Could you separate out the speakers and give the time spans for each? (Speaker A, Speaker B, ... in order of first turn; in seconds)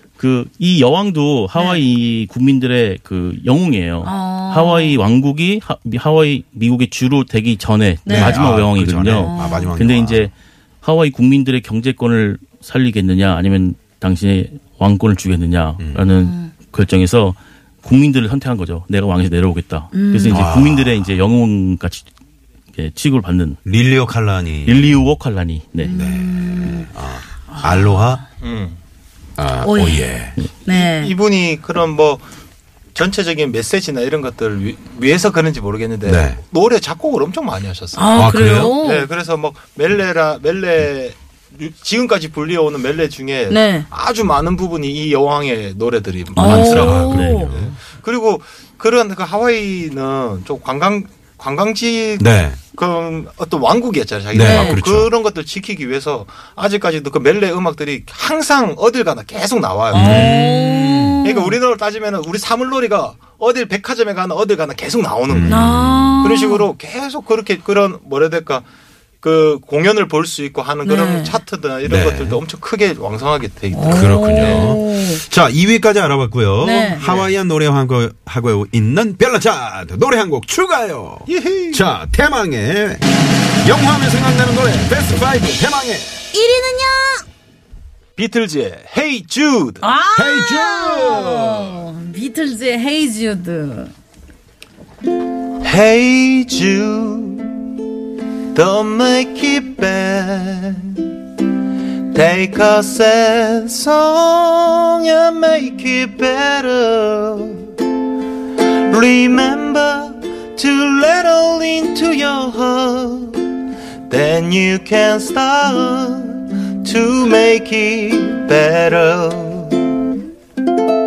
Speaker A: 0.2-22.1, 22.7-23.6, 24.6-25.9, 46.6-47.6, 59.9-60.3
Speaker B: 1.6-1.8, 4.0-5.0, 8.0-8.4, 9.1-9.7, 16.1-16.5, 19.9-20.5, 25.8-26.9, 27.6-27.9, 29.6-31.1, 38.0-39.1, 43.5-43.9, 46.4-47.5, 54.3-54.8, 59.9-61.5, 65.5-66.7, 70.8-71.4, 73.7-75.2, 76.6-77.0, 86.3-87.2, 89.8-93.9
Speaker C: 8.1-10.3, 15.8-16.0, 20.3-21.1, 23.6-24.9, 25.9-28.2, 29.4-30.4, 36.0-36.4, 38.1-38.8, 46.4-47.8, 52.2-52.6, 54.3-55.1, 59.9-61.2, 65.3-66.3, 71.8-72.4, 73.9-83.0, 83.6-86.1, 90.1-91.8
Speaker D: 28.4-28.8, 30.7-32.2, 32.9-60.3, 61.2-65.6, 66.2-68.6, 69.2-74.8, 77.0-77.3, 81.3-81.8, 88.2-89.8, 95.6-97.7, 98.5-101.1, 102.1-107.7, 108.9-113.5, 114.1-120.0